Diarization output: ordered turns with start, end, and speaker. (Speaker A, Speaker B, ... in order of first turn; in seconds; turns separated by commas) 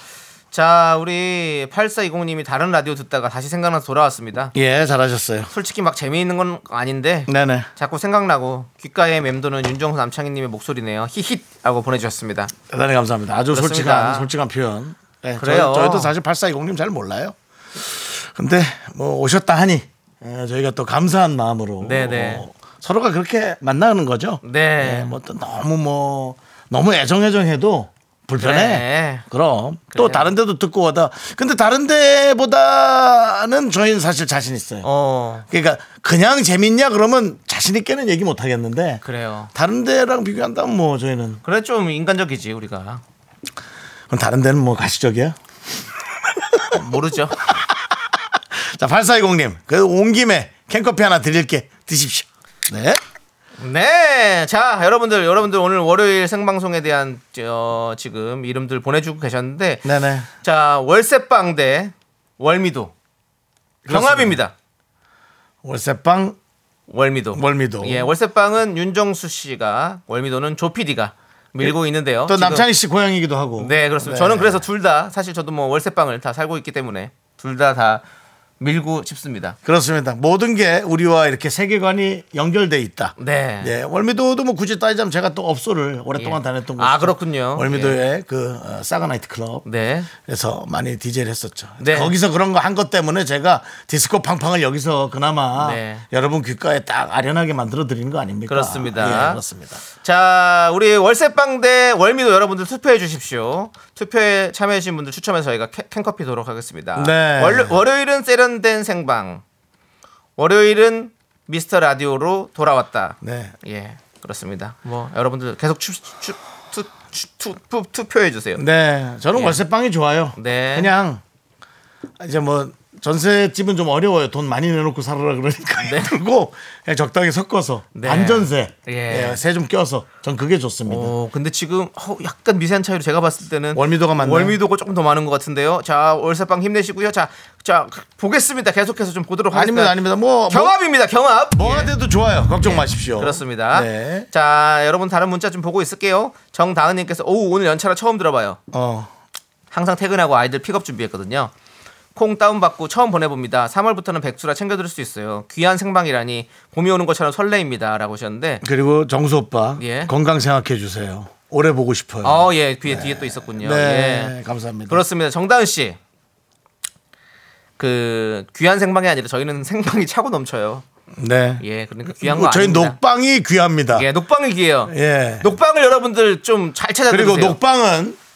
Speaker A: 0.5-4.5, Speaker B: 4.5-5.5, Speaker A: 5.5-12.5, Speaker B: 7.3-7.7, Speaker B: 12.7-34.9, Speaker A: 13.5-14.3, Speaker A: 15.4-16.1, Speaker A: 21.8-22.4, Speaker A: 24.4-25.1, Speaker A: 28.4-29.2, Speaker A: 29.9-30.3, Speaker A: 34.8-35.5, Speaker B: 35.5-39.0, Speaker A: 39.0-39.5, Speaker B: 39.5-41.4, Speaker A: 41.4-43.0, Speaker B: 44.1-45.4, Speaker B: 46.4-46.6, Speaker A: 46.7-47.4, Speaker B: 48.5-53.0, Speaker A: 53.6-59.9, Speaker B: 59.8-60.3, Speaker A: 60.4-62.9, Speaker B: 63.9-64.4, Speaker A: 63.9-64.5, Speaker B: 65.6-66.4, Speaker A: 66.9-72.7, Speaker B: 67.3-68.1, Speaker B: 71.6-74.6, Speaker A: 73.6-78.0, Speaker A: 78.6-79.6, Speaker B: 79.6-89.6, Speaker A: 83.2-83.7, Speaker A: 86.2-88.0, Speaker A: 89.6-90.1, Speaker B: 90.2-99.8, Speaker A: 91.8-92.1, Speaker A: 95.6-96.0, Speaker A: 98.5-99.4, Speaker A: 100.0-109.4, Speaker B: 107.0-107.8, Speaker A: 110.4-118.6, Speaker B: 113.2-113.5, Speaker B: 118.6-121.2, Speaker A: 119.3-119.6, Speaker A: 120.3-120.9, Speaker B: 122.2-131.1, Speaker A: 125.8-126.2, Speaker A: 127.9-129.4, Speaker A: 130.9-140.0, Speaker B: 133.7-134.6, Speaker B: 139.5-140.7, Speaker A: 140.5-141.9, Speaker B: 141.5-144.3, Speaker A: 142.6-148.6, Speaker B: 148.7-149.1, Speaker A: 149.7-151.5, Speaker A: 152.1-158.6, Speaker B: 158.6-165.0, Speaker A: 159.8-160.1, Speaker A: 162.2-164.3, Speaker A: 164.9-166.0, Speaker A: 167.8-170.8, Speaker B: 171.1-174.1, Speaker A: 171.6-173.0, Speaker A: 173.9-177.6, Speaker B: 174.9-175.5, Speaker B: 177.1-178.2